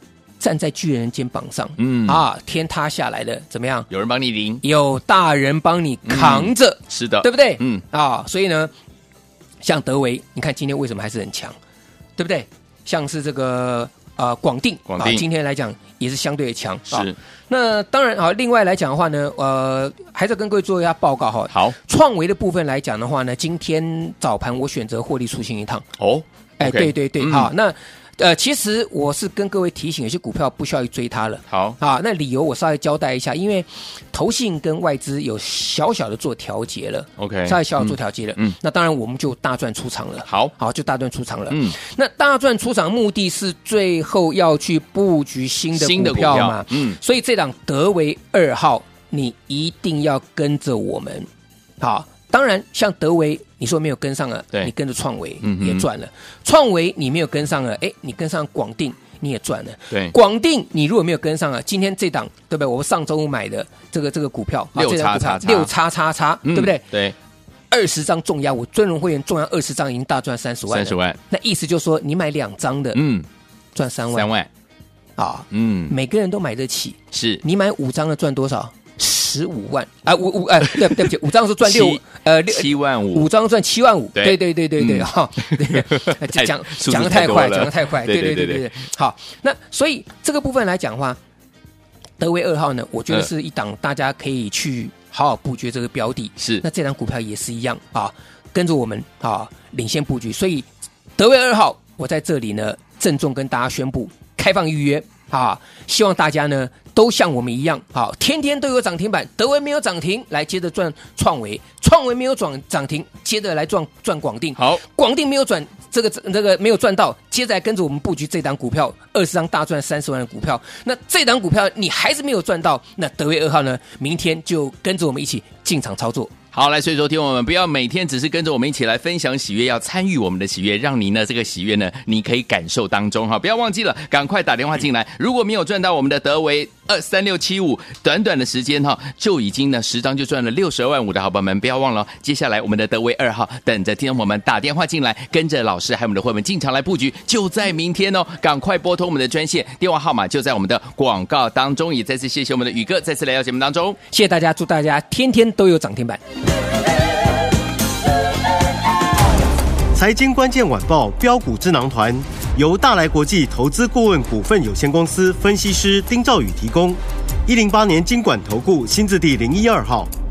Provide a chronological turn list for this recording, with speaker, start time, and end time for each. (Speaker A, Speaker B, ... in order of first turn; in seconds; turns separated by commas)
Speaker A: 0.4-3.9, Speaker B: 1.8-2.2, Speaker B: 3.9-4.6, Speaker A: 4.6-8.7, Speaker B: 6.1-7.8, Speaker A: 9.6-11.6, Speaker A: 12.2-25.9, Speaker B: 14.9-15.2, Speaker B: 16.9-17.2, Speaker B: 21.5-21.8, Speaker B: 26.0-27.5, Speaker A: 26.6-51.3, Speaker B: 31.5-31.8, Speaker B: 37.2-38.6, Speaker B: 40.3-40.5, Speaker B: 41.5-41.8, Speaker B: 45.7-47.0, Speaker A: 51.8-66.9, Speaker B: 55.4-55.9, Speaker B: 64.8-65.7, Speaker B: 66.5-67.2, Speaker A: 67.7-73.0, Speaker B: 70.7-71.2, Speaker B: 72.9-73.3, Speaker A: 73.8-74.3, Speaker B: 74.1-74.5, Speaker A: 75.2-91.2, Speaker B: 75.5-75.9, Speaker B: 77.1-77.4, Speaker B: 81.6-83.3, Speaker B: 84.2-88.7, Speaker A: 92.2-126.3, Speaker B: 96.4-96.6, Speaker B: 114.6-114.8, Speaker B: 126.5-154.0, Speaker A: 154.1-156.2, Speaker C: 159.9-170.1